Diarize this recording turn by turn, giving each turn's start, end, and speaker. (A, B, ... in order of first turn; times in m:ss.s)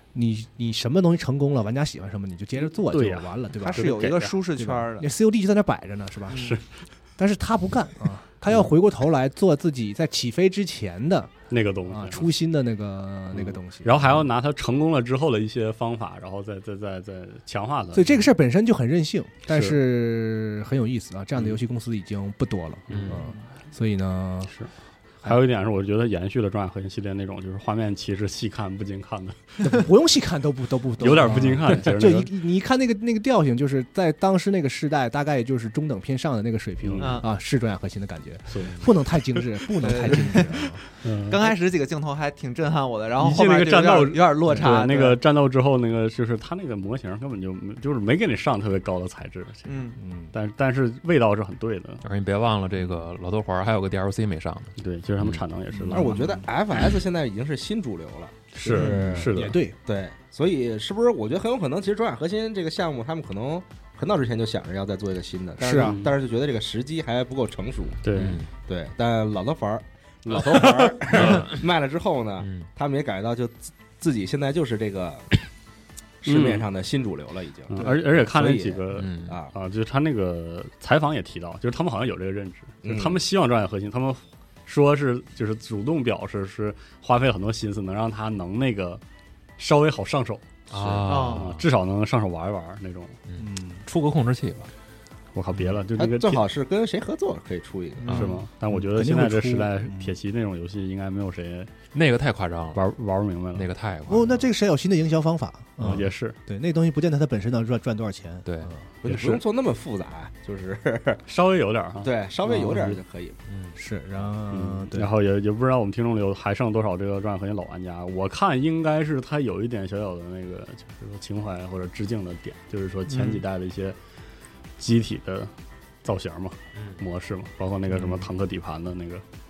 0:00.1-0:04.0 A
0:02.9-0:04.4 B
0:03.6-0:05.1 C
0:04.5-0:06.5 A
0:06.3-0:06.6 C
0:06.3-0:06.6 B
0:07.2-0:11.3 A
0:11.5-0:12.3 B
0:11.9-0:14.1 A
0:13.3-0:18.3 B
0:17.9-0:24.5 A
0:19.5-0:19.8 B
0:22.9-0:23.2 B
0:22.9-0:23.3 D
0:25.2-0:29.4 B
0:29.6-0:40.8 A
0:31.0-0:32.3 B
0:36.8-0:37.2 B
0:37.0-0:37.3 C
0:38.5-0:38.8 B
0:39.8-0:40.6 C
0:41.0-0:41.5 B
0:41.3-0:45.2 C
0:43.2-0:49.8 B
0:49.7-0:50.0 C
0:50.0-0:50.3 A
0:50.3-0:52.0 B
0:52.0-0:55.4 D
0:54.8-0:56.2 B
0:55.7-0:56.3 A
0:55.9-0:59.3 E
0:58.5-0:59.6 B
0:58.8-0:59.8 A
0:59.9-1:08.0 E
1:05.6-1:06.0 A
1:05.8-1:06.1 B
1:08.0-1:08.4 B
1:08.2-1:08.5 D
1:08.6-1:15.4 E
1:10.2-1:10.5 B
1:10.7-1:11.6 D
1:12.4-1:12.7 D
1:16.2-1:19.5 E
1:16.2-1:16.7 B
1:17.7-1:29.0 B
1:19.0-1:19.4 D
1:22.8-1:23.2 E
1:29.6-1:33.2 B
1:30.7-1:31.6 D
1:31.1-1:31.5 C
1:33.3-1:34.7 D
1:33.4-1:33.8 A
1:35.4-1:36.4 B
1:36.0-1:38.1 E
1:38.0-1:38.3 C
1:38.1-1:38.3 D
1:38.1-1:41.7 B
1:38.7-1:40.2 A
1:41.9-1:42.8 D
1:42.7-1:43.7 B
1:43.6-1:44.3 D
1:44.1-1:48.9 A
1:45.8-1:46.4 B
1:49.0-1:51.2 E
1:49.0-1:49.4 B
1:51.3-1:53.0 B
1:52.0-1:53.4 E
1:53.5-1:53.8 D
1:53.8-1:55.1 A
1:54.5-2:04.0 B
2:03.1-2:03.4 C
2:04.8-2:05.5 B
2:06.0-2:09.2 B
2:06.8-2:07.0 D